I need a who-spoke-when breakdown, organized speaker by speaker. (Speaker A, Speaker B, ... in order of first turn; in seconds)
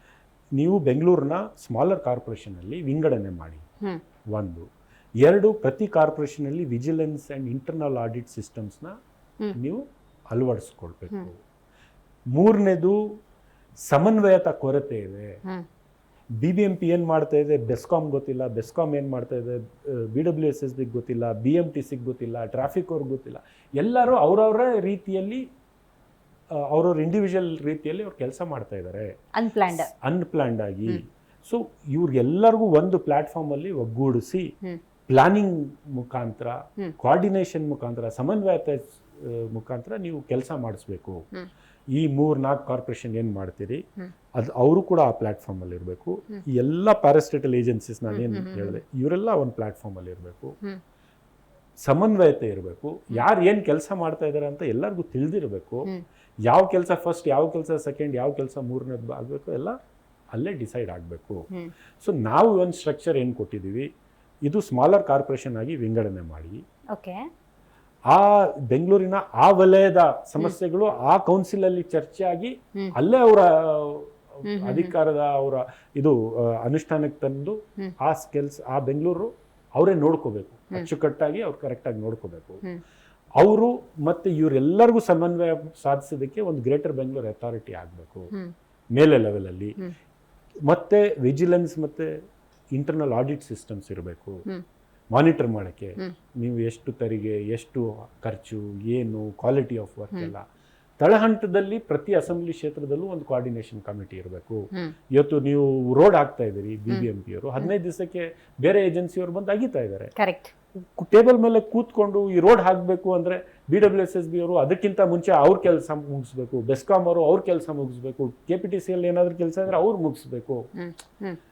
Speaker A: 0.6-3.6, 4.3-4.7, 5.2-8.9, 9.5-11.4, 12.3-13.0, 13.9-15.4, 16.4-25.4, 26.6-29.1, 29.7-34.5, 35.1-41.2, 42.0-43.8, 44.4-50.6, 51.8-55.9, 56.5-59.8, 60.3-61.5, 62.0-63.9, 64.4-66.6, 68.1-82.6, 83.4-88.3, 89.0-89.8, 90.7-92.1, 92.7-94.5, 95.1-100.4, 101.0-110.1, 110.8-120.7
Speaker B: 29.4-29.9, 48.1-48.8, 66.9-67.2, 74.5-74.9, 110.2-110.5, 120.8-121.4